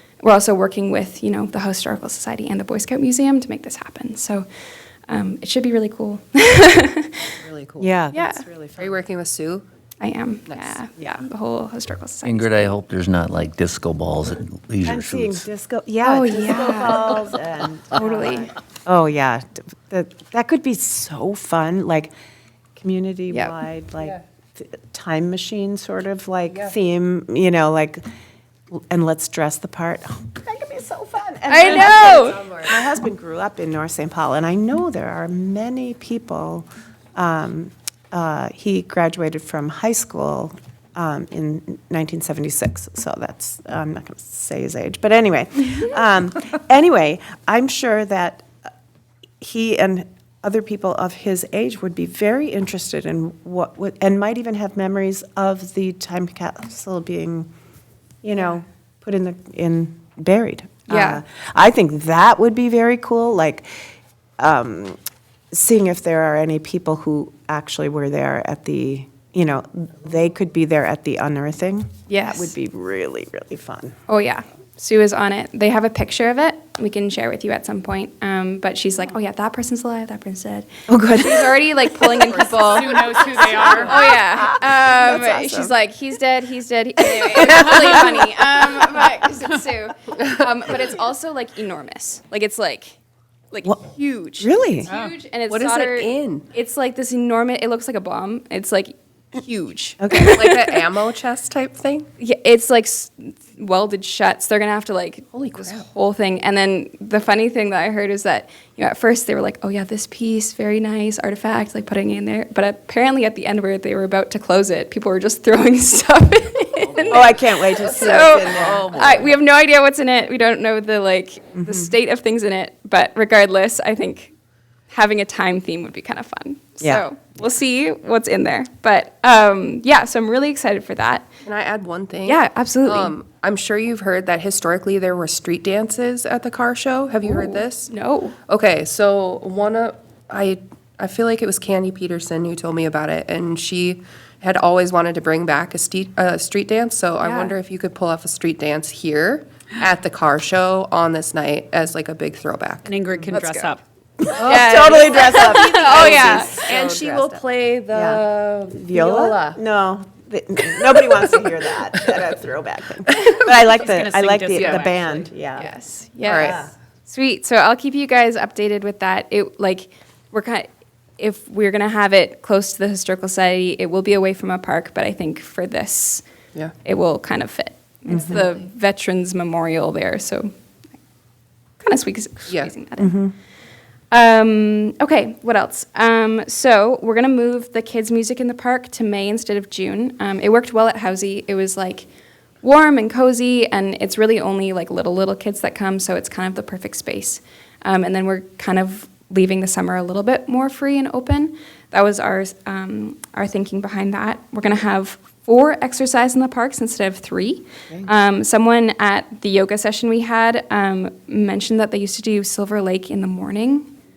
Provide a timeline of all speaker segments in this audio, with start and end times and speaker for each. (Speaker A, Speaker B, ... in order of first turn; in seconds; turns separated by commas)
Speaker A: 0.2-4.5, Speaker A: 5.1-7.4, Speaker B: 7.4-7.9, Speaker C: 7.8-9.0, Speaker A: 8.1-8.4, Speaker B: 8.8-9.7, Speaker A: 10.0-12.7, Speaker B: 10.5-10.8, Speaker D: 12.2-15.4, Speaker C: 14.8-22.1, Speaker A: 16.0-17.3, Speaker A: 17.9-18.5, Speaker C: 22.8-28.0, Speaker C: 28.7-48.5, Speaker A: 31.5-32.4, Speaker B: 31.6-32.8, Speaker C: 49.4-57.5, Speaker C: 58.2-63.7, Speaker A: 60.9-61.2, Speaker C: 64.4-65.0, Speaker C: 65.5-74.0, Speaker A: 72.1-72.5, Speaker A: 74.1-93.0, Speaker C: 80.9-82.5, Speaker B: 82.3-83.9, Speaker E: 82.7-83.9, Speaker C: 83.7-85.8, Speaker C: 87.2-88.3, Speaker A: 93.5-100.7, Speaker C: 94.4-94.9, Speaker B: 95.5-96.5, Speaker C: 100.0-100.6, Speaker B: 100.3-102.1, Speaker A: 102.2-124.3, Speaker B: 105.4-105.8, Speaker C: 117.1-119.3, Speaker B: 117.8-119.3, Speaker C: 121.5-121.9, Speaker A: 124.9-131.3, Speaker B: 131.4-137.9, Speaker A: 132.2-133.2, Speaker A: 137.2-138.4, Speaker B: 138.5-152.9, Speaker A: 147.2-147.6, Speaker E: 152.8-153.8, Speaker A: 153.3-153.7, Speaker C: 154.2-157.4, Speaker B: 154.3-159.6, Speaker A: 154.4-156.7, Speaker C: 157.9-165.7, Speaker E: 163.5-165.3, Speaker B: 164.6-164.8, Speaker A: 165.6-170.7, Speaker B: 166.2-166.6, Speaker C: 166.3-166.7, Speaker A: 171.2-176.2, Speaker A: 176.8-180.5, Speaker C: 178.1-178.4, Speaker A: 181.8-183.2, Speaker C: 183.0-183.3, Speaker A: 184.1-192.1, Speaker A: 192.6-213.9